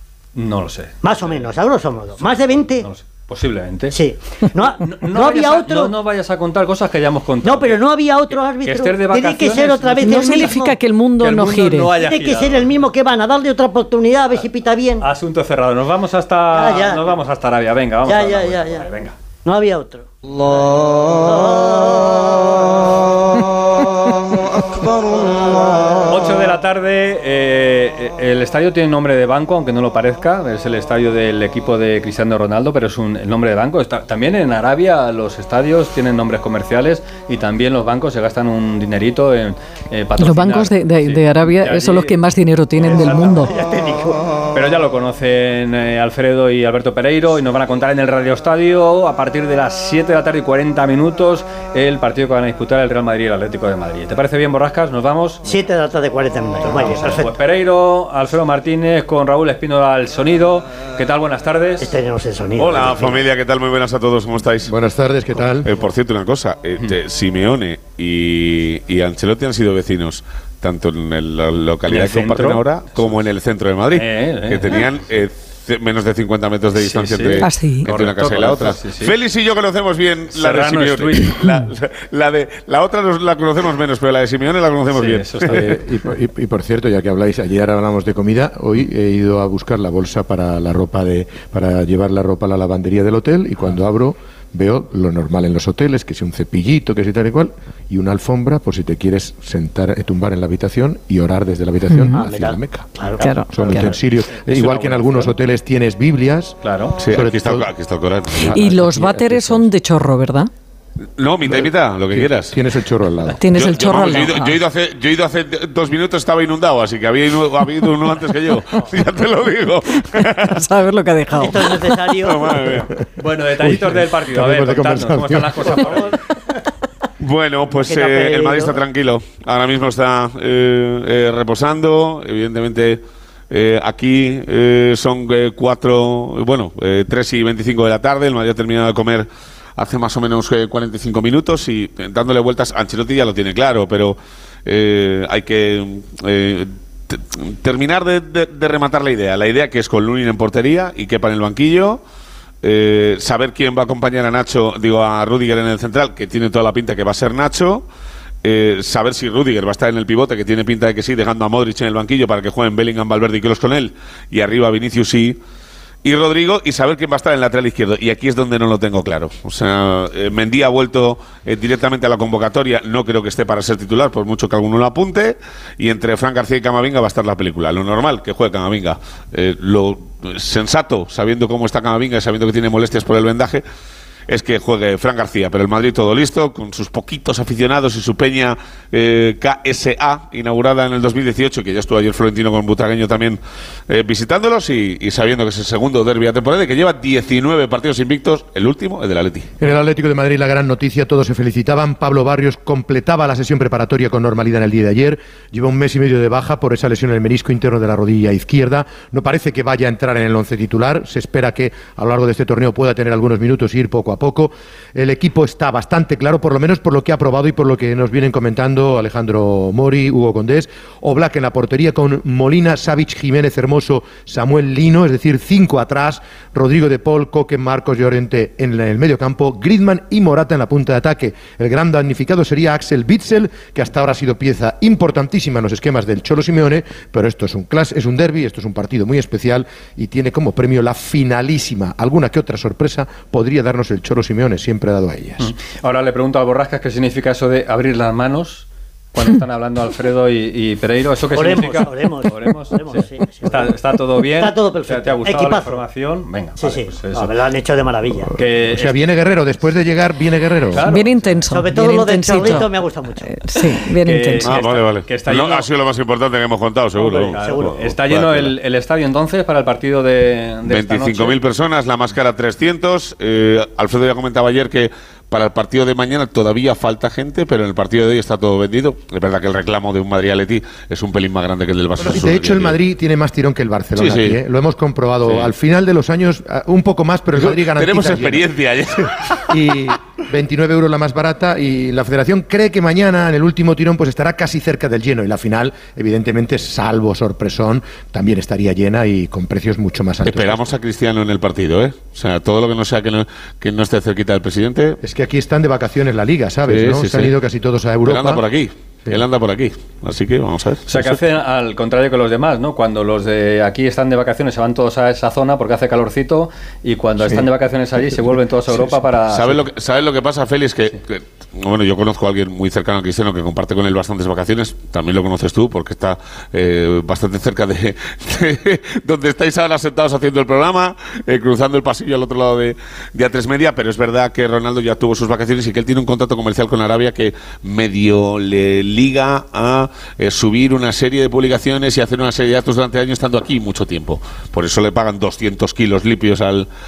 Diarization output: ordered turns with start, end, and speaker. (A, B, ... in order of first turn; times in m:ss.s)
0:00.3-0:01.6 A
0:01.0-0:02.9 B
0:02.1-0:04.0 A
0:03.9-0:05.9 B
0:04.8-0:07.9 A
0:07.4-0:10.6 B
0:08.6-0:12.7 A
0:10.0-0:11.9 C
0:12.0-0:15.0 B
0:15.0-0:19.1 A
0:16.5-0:17.1 B
0:18.0-0:18.9 B
0:19.4-0:22.8 B
0:26.0-0:42.2 A
0:40.2-0:43.5 C
0:42.8-0:43.5 A
0:42.8-0:44.2 B
0:44.5-0:55.4 A
0:55.4-0:57.3 B
0:56.6-1:01.9 A
1:01.8-1:03.2 B
1:02.6-1:04.7 D
1:04.6-1:05.7 E
1:05.6-1:25.5 D
1:11.9-1:13.2 A
1:13.9-1:14.6 A
1:16.8-1:19.1 A
1:17.4-1:17.9 C
1:20.3-1:21.3 A
1:24.9-1:25.8 A
1:25.4-1:47.7 E
1:41.9-1:42.2 C
1:42.1-1:43.3 B
1:43.2-1:45.4 A
1:43.2-1:43.9 C
1:46.6-1:47.0 A
1:47.0-1:49.4 D
1:48.5-1:50.5 C
1:48.5-1:49.6 E
1:51.2-1:52.6 D
1:51.4-1:53.4 E
1:53.4-1:54.6 C
1:53.5-2:00.6 D
2:00.3-2:01.7 C
2:01.3-2:02.6 B
2:01.5-2:02.9 D
2:03.2-2:06.2 A
2:03.6-2:05.7 E
2:07.2-2:32.0 D
2:07.8-2:08.8 B
2:32.6-2:37.8 D
2:38.4-2:45.4 D
2:46.0-3:03.6 D
3:04.3-3:19.5 D
3:19.6-4:05.5 E
4:05.4-4:17.4 A
4:11.3-4:13.7 B
4:14.2-4:15.8 B
4:16.6-4:18.3 B
4:18.3-4:19.8 A
4:18.4-4:20.8 E
4:20.7-4:21.4 A
4:20.8-4:22.7 C
4:21.5-4:23.2 B
4:23.2-4:24.5 C
4:24.0-4:25.7 A
4:24.4-4:28.5 D
4:27.0-4:31.4 A
4:27.2-4:27.7 B
4:30.6-4:42.8 D
4:42.0-4:48.5 E
4:43.9-4:44.4 D
4:45.2-4:45.5 D
4:47.3-4:49.6 D
4:49.5-5:00.7 E
5:00.2-5:05.0 D
5:05.0-5:08.4 E
5:06.6-5:07.4 D
5:08.0-5:11.1 D
5:10.8-5:19.6 A
5:19.3-5:46.7 D